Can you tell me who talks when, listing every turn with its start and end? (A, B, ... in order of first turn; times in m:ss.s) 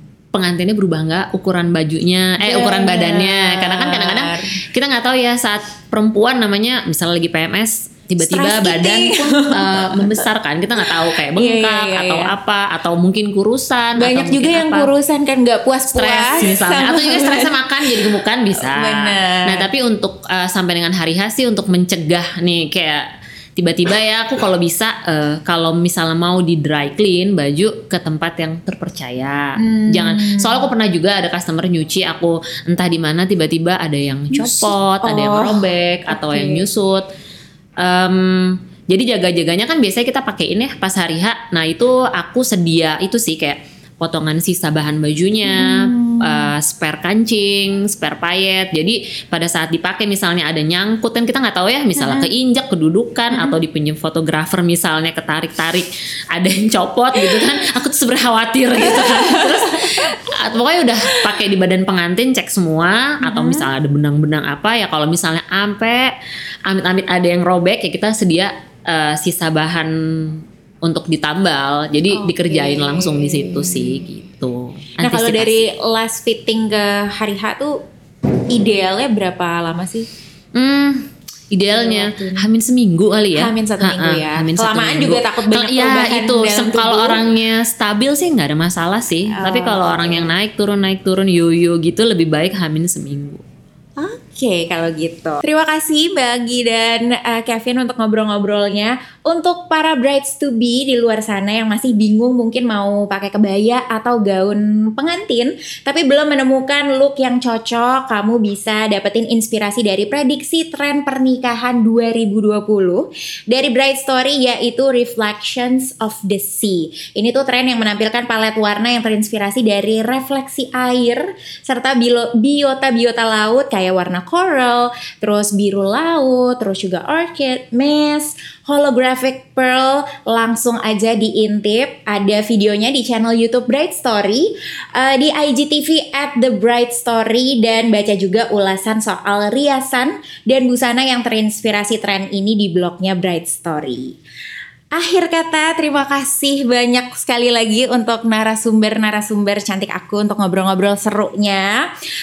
0:00.3-0:14.9 A
0:02.4-0:04.5 B
0:08.2-0:10.3 B
0:10.8-0:12.3 B
0:14.0-0:19.7 B
0:16.0-0:23.0 A
0:23.6-0:37.1 A
0:29.6-0:30.7 B
0:34.3-0:36.7 B
0:37.8-1:06.1 A
0:45.4-0:46.5 B
0:52.0-0:52.3 B
0:53.3-0:53.6 B
0:57.2-0:57.5 B
0:58.8-1:00.3 B
1:01.1-1:01.4 B
1:03.2-1:03.7 B
1:06.7-1:15.6 A
1:12.1-1:14.1 B
1:15.0-1:17.8 B
1:18.5-1:20.1 B
1:20.6-1:21.0 A
1:21.5-1:33.4 A
1:21.7-1:22.5 B
1:23.4-1:27.2 B
1:29.3-1:30.3 B
1:34.0-2:24.2 B
2:25.0-2:31.8 B